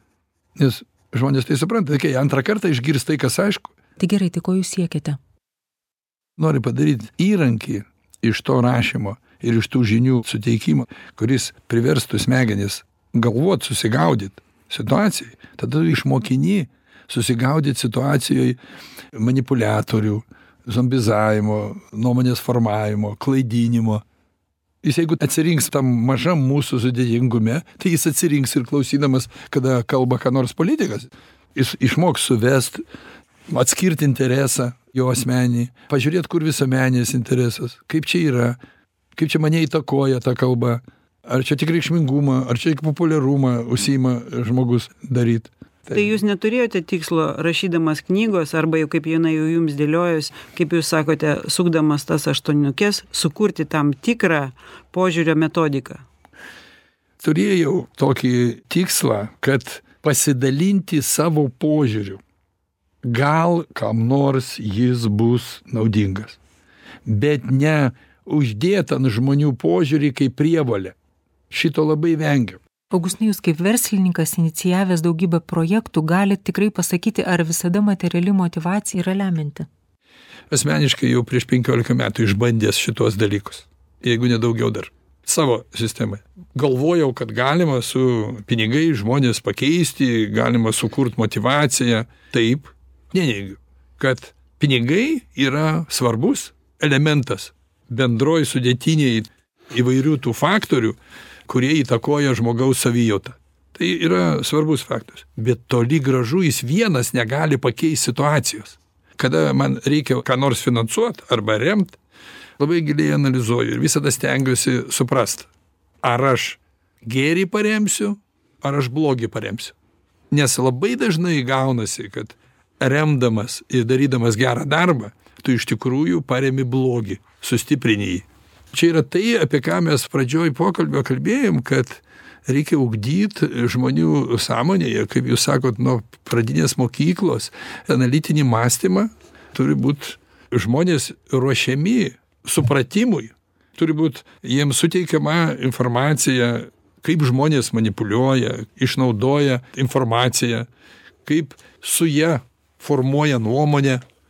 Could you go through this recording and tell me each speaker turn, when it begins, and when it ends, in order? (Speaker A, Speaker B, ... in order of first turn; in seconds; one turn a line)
Speaker A: 0.6-3.7
Speaker B: 4.0-5.2
Speaker A: 6.4-18.6
Speaker A: 19.1-24.0
Speaker A: 24.8-32.8
Speaker A: 33.5-38.6
Speaker A: 39.2-46.2
Speaker C: 45.9-56.0
Speaker A: 57.2-62.2
Speaker A: 63.0-66.4
Speaker A: 67.0-70.9
Speaker A: 71.5-72.6
Speaker B: 72.9-79.7
Speaker A: 80.5-112.0
Speaker A: 112.6-115.5
Speaker A: 116.0-119.7
Speaker A: 120.3-150.7
Speaker A: 151.2-154.0